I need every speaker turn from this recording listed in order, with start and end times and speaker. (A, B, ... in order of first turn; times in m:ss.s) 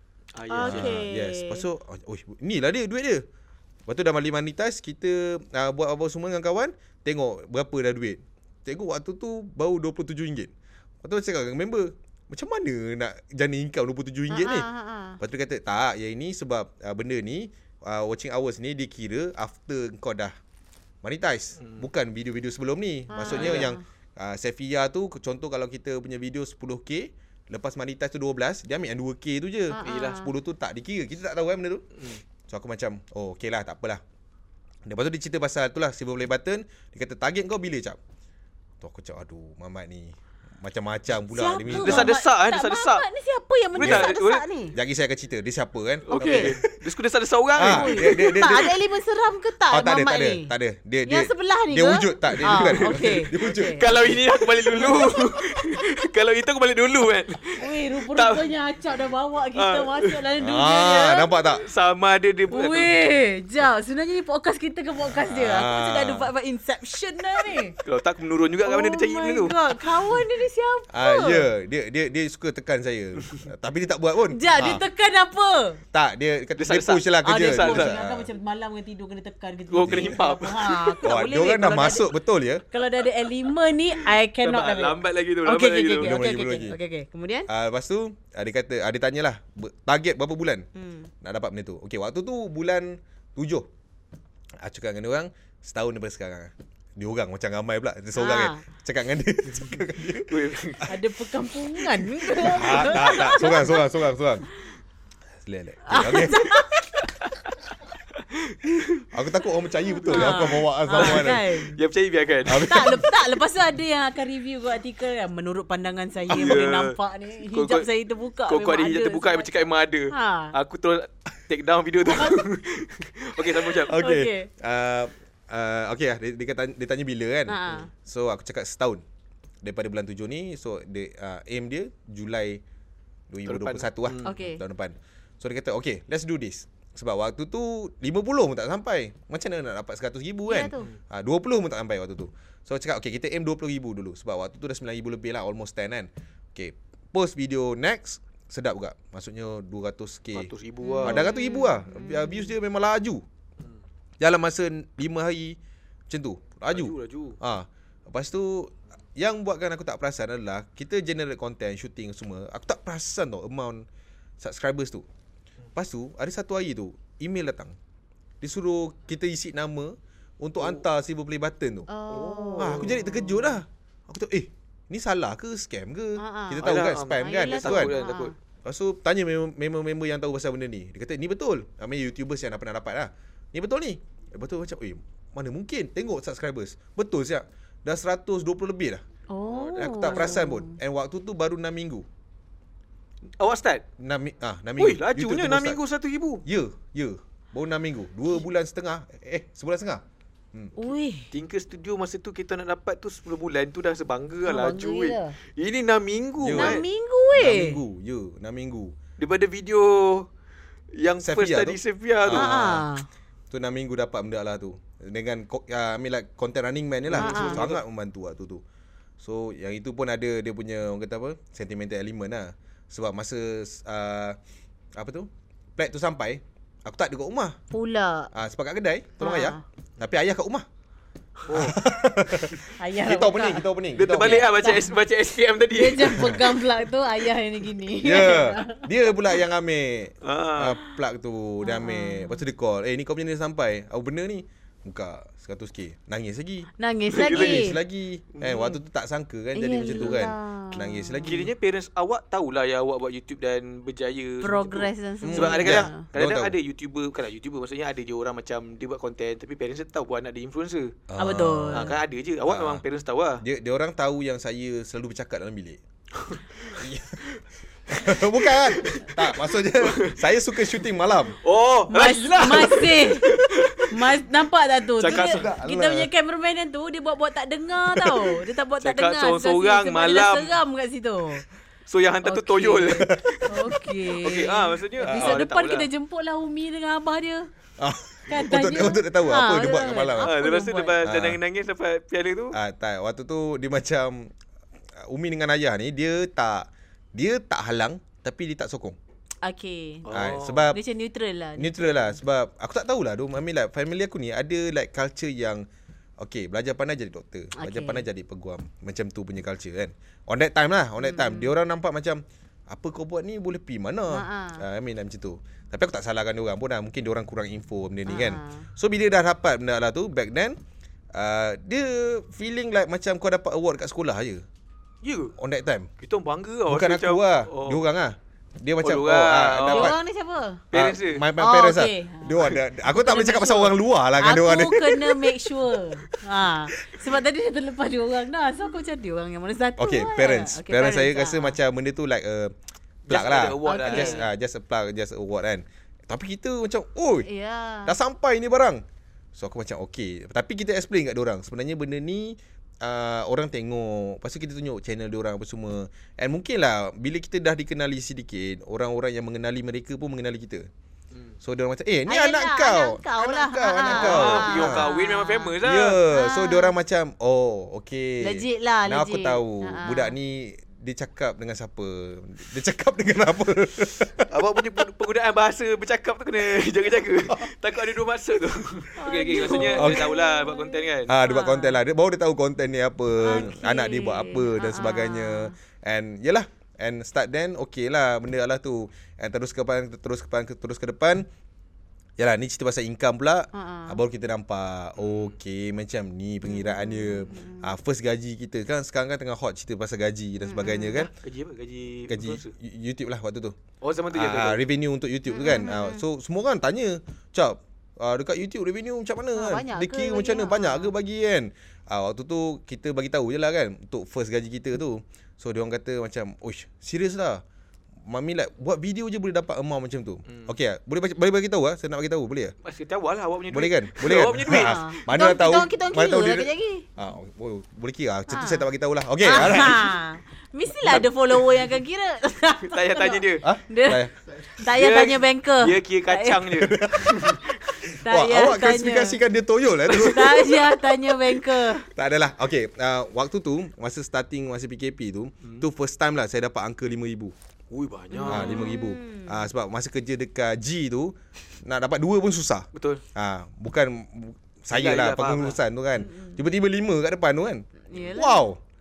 0:00.3-0:01.0 A
0:00.5-0:01.6 B
0:00.6-0:03.2 C
0:03.9-0:14.7 C
0:14.3-0:15.2 B
0:15.2-0:20.3 C
0:21.0-0:31.8 C
0:21.6-0:21.9 A
0:23.1-0:23.8 B
0:23.3-0:23.7 A
0:29.7-0:30.3 B
0:29.8-0:30.3 A
0:31.9-0:32.2 A
0:32.5-0:34.0 C
0:34.8-0:38.0 C
0:38.8-0:42.1 C
0:41.3-0:44.8 B
0:41.6-0:43.0 A
0:43.7-0:44.4 A
0:43.8-0:44.1 C
0:44.7-0:46.6 C
0:46.1-0:46.6 B
0:46.1-0:48.4 A
0:47.6-0:48.7 C
0:47.6-0:50.5 B
0:49.7-0:54.2 C
0:51.0-0:53.9 B
0:52.4-0:58.5 A
0:54.7-0:55.9 B
0:57.6-1:01.6 B
0:59.6-1:00.3 A
1:00.4-1:01.6 C
1:01.6-1:03.0 A
1:02.5-1:07.8 B
1:05.2-1:06.3 C
1:07.8-1:09.6 A
1:08.6-1:11.4 B
1:10.9-1:14.8 C
1:14.3-1:15.8 B
1:15.9-1:18.3 C
1:16.6-1:18.0 A
1:17.2-1:22.1 B
1:19.7-1:21.0 A
1:19.8-1:20.2 C
1:21.0-1:22.6 C
1:22.7-1:27.5 B
1:24.0-1:26.2 A
1:26.0-1:26.8 C
1:27.5-1:30.7 C
1:30.7-1:31.1 B
1:31.2-1:33.7 C
1:34.6-1:40.4 C
1:38.1-1:38.6 B
1:40.2-1:40.9 A
1:40.8-1:43.8 B
1:42.4-1:44.4 C
1:42.8-1:43.3 A
1:45.4-1:46.7 C
1:45.9-1:47.1 B
1:48.2-1:49.0 A
1:49.1-1:51.4 C
1:50.0-1:53.1 A
1:50.1-1:51.8 B
1:52.4-1:53.1 C
1:52.6-2:00.6 B
1:56.3-1:56.6 C
1:56.3-1:57.9 A
1:58.5-2:04.0 A
2:02.0-2:02.4 B
2:03.8-2:09.0 C
2:03.9-2:04.5 B
2:07.5-2:07.9 B
2:09.6-2:12.6 C
2:13.3-2:30.5 C
2:13.4-2:14.3 A
2:14.2-2:14.6 B
2:20.5-2:20.9 B
2:30.3-2:31.3 A
2:30.8-2:32.5 B
2:31.0-2:33.2 C
2:34.2-2:43.9 C
2:36.7-2:37.4 A
2:44.4-2:45.0 C
2:45.7-2:47.8 C
2:48.4-2:51.9 C
2:51.9-2:53.0 B
2:52.1-2:53.6 A
2:52.6-2:58.0 C
2:56.2-2:56.7 B
2:56.6-2:58.3 A
2:57.2-2:58.3 B
2:58.6-3:12.0 C
3:09.3-3:10.8 B
3:13.4-3:13.8 A
3:14.0-3:15.8 C
3:14.8-3:16.4 A
3:16.4-3:20.7 C
3:20.8-3:21.3 B
3:21.3-3:26.8 A
3:24.4-3:25.3 B
3:26.4-3:28.9 C
3:26.6-3:27.8 B
3:29.2-3:30.3 A
3:31.0-3:32.6 A
3:31.2-3:32.9 C
3:32.3-3:33.0 B
3:33.5-3:38.6 C
3:37.1-3:37.8 A
3:37.1-3:37.6 B
3:39.2-3:44.4 C
3:44.9-3:47.6 C
3:47.7-3:48.3 B
3:48.3-3:50.6 C
3:49.2-3:49.6 B
3:51.4-3:51.8 A
3:51.5-3:54.5 C
3:52.8-3:53.7 B
3:53.9-3:56.6 A
3:54.2-3:54.9 B
3:55.7-3:58.9 B
3:56.2-3:56.4 C
3:58.0-4:06.7 C
4:00.2-4:00.8 A
4:01.6-4:02.4 B
4:06.8-4:07.8 B
4:07.1-4:07.8 A
4:07.2-4:11.5 C
4:08.3-4:08.8 A
4:09.6-4:11.4 B
4:11.2-4:21.0 A
4:14.4-4:16.0 B
4:15.2-4:16.6 C
4:21.1-4:22.8 C
4:21.2-4:22.0 B
4:21.7-4:23.4 A
4:23.4-4:25.8 C
4:26.1-4:26.8 A
4:26.8-4:27.3 C
4:27.9-4:31.4 C
4:28.5-4:30.2 A
4:31.4-4:34.0 A
4:31.9-4:33.3 B
4:33.9-4:41.4 B
4:35.0-4:35.5 A
4:35.0-4:36.1 C
4:38.0-4:40.6 A
4:41.9-4:45.9 A
4:42.2-4:47.5 B
4:43.0-4:43.3 C
4:45.0-4:45.4 C
4:47.8-4:50.3 C
4:48.3-4:51.0 B
4:50.2-4:52.6 A
4:51.0-4:51.4 C
4:52.5-4:54.3 C
4:55.0-4:59.0 C
4:59.4-5:02.2 B
5:00.0-5:00.7 A
5:00.1-5:00.8 C
5:01.6-5:05.6 C
5:06.2-5:20.6 C
5:07.6-5:08.0 B
5:11.0-5:11.5 B
5:14.1-5:14.6 B
5:18.0-5:18.7 B
5:21.1-5:24.4 C
5:25.0-5:25.3 A
5:25.4-5:25.9 C
5:26.0-5:27.8 A
5:26.7-5:30.0 C
5:28.8-5:29.9 A
5:29.7-5:30.6 B
5:30.7-5:31.3 A
5:30.7-5:35.3 C
5:31.4-5:41.6 B
5:39.8-5:42.5 C
5:43.1-5:44.3 A
5:43.1-5:47.3 C
5:43.6-5:44.3 B
5:47.2-5:48.0 B
5:47.9-5:48.8 C
5:49.3-6:00.7 C
6:01.4-6:04.9 C
6:02.1-6:05.6 B
6:03.8-6:06.0 A
6:05.6-6:14.3 C
6:06.1-6:06.7 B
6:08.2-6:10.1 B
6:14.3-6:21.2 A
6:19.0-6:21.8 B
6:19.5-6:20.1 C
6:21.1-6:31.3 C
6:23.2-6:25.5 B
6:32.2-6:41.1 C
6:33.5-6:34.0 B
6:35.0-6:35.3 A
6:36.4-6:37.7 B
6:40.4-6:41.0 B
6:41.0-6:42.5 A
6:42.1-6:43.6 C
6:43.8-6:44.6 A
6:44.1-6:57.4 C
6:45.3-6:46.0 B
6:49.3-6:50.9 B
6:58.0-7:02.5 C
7:00.3-7:00.6 A
7:02.6-7:05.1 A
7:03.5-7:10.0 C
7:04.5-7:06.9 B
7:08.3-7:08.7 B
7:09.2-7:14.0 B
7:10.8-7:11.1 C
7:12.6-7:13.5 A
7:13.4-7:14.1 C
7:14.6-7:16.6 B
7:14.6-7:17.8 A
7:16.6-7:20.6 C
7:17.9-7:19.2 B
7:19.9-7:20.6 A
7:19.9-7:21.9 B
7:21.9-7:27.3 C
7:27.7-7:28.7 A
7:28.1-7:29.4 B
7:28.3-7:38.6 C
7:32.7-7:33.0 A
7:34.7-7:35.6 A
7:36.0-7:36.4 B
7:37.9-7:38.5 B